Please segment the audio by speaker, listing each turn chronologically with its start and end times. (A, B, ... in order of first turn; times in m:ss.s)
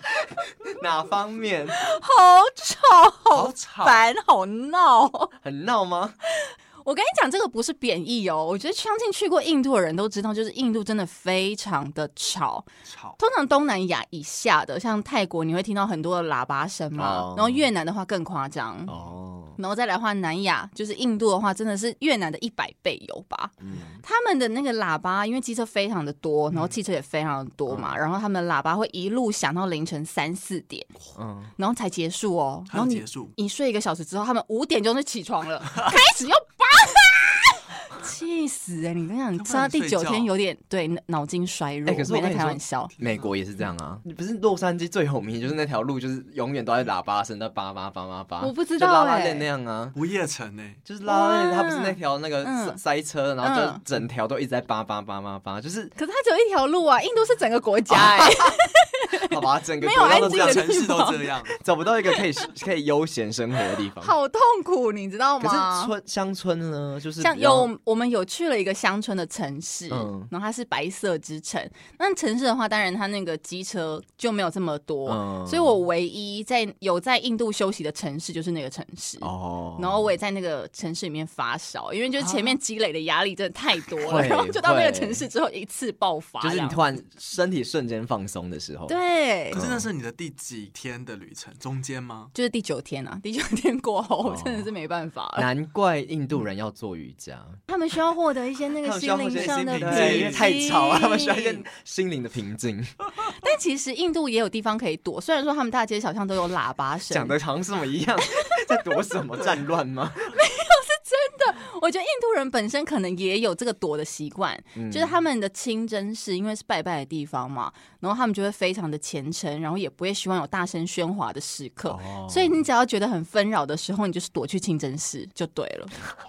0:00.2-0:01.8 A
0:01.7-0:05.3 B
0:03.3-0:04.0 C
0:05.4-0:06.2 A
0:06.2-0:12.6 B
0:12.8-0:13.2 C
0:13.2-0:18.9 B
0:16.9-0:17.7 A
0:18.9-0:19.6 A
0:19.6-0:30.9 B
0:23.6-0:24.0 A
0:27.7-0:28.0 A
0:31.2-0:31.5 A
0:31.6-0:42.9 B
0:32.7-0:33.3 C
0:39.4-0:40.3 C
0:41.8-0:50.0 A
0:48.4-0:49.4 B
0:49.9-0:50.8 C
0:50.8-0:55.9 A
0:51.0-0:52.8 B
0:53.4-0:53.8 B
0:56.0-1:01.2 B
0:57.9-0:58.6 A
0:59.2-1:00.8 A
1:00.0-1:01.6 C
1:01.5-1:04.1 A
1:04.0-1:05.9 B
1:05.4-1:07.7 A
1:07.2-1:26.8 B
1:09.9-1:10.3 A
1:15.0-1:15.7 A
1:19.2-1:20.1 A
1:24.0-1:25.2 A
1:26.4-1:29.0 A
1:28.9-1:29.6 B
1:29.5-1:29.9 A
1:29.5-1:32.3 C
1:32.3-1:35.5 B
1:34.2-1:34.7 A
1:35.4-1:37.6 A
1:37.7-1:41.6 B
1:38.8-1:42.9 A
1:39.3-1:40.5 C
1:43.3-1:47.4 B
1:47.1-1:50.3 A
1:48.3-1:48.6 B
1:50.3-2:05.9 B
1:54.8-1:55.1 A
2:01.9-2:02.6 A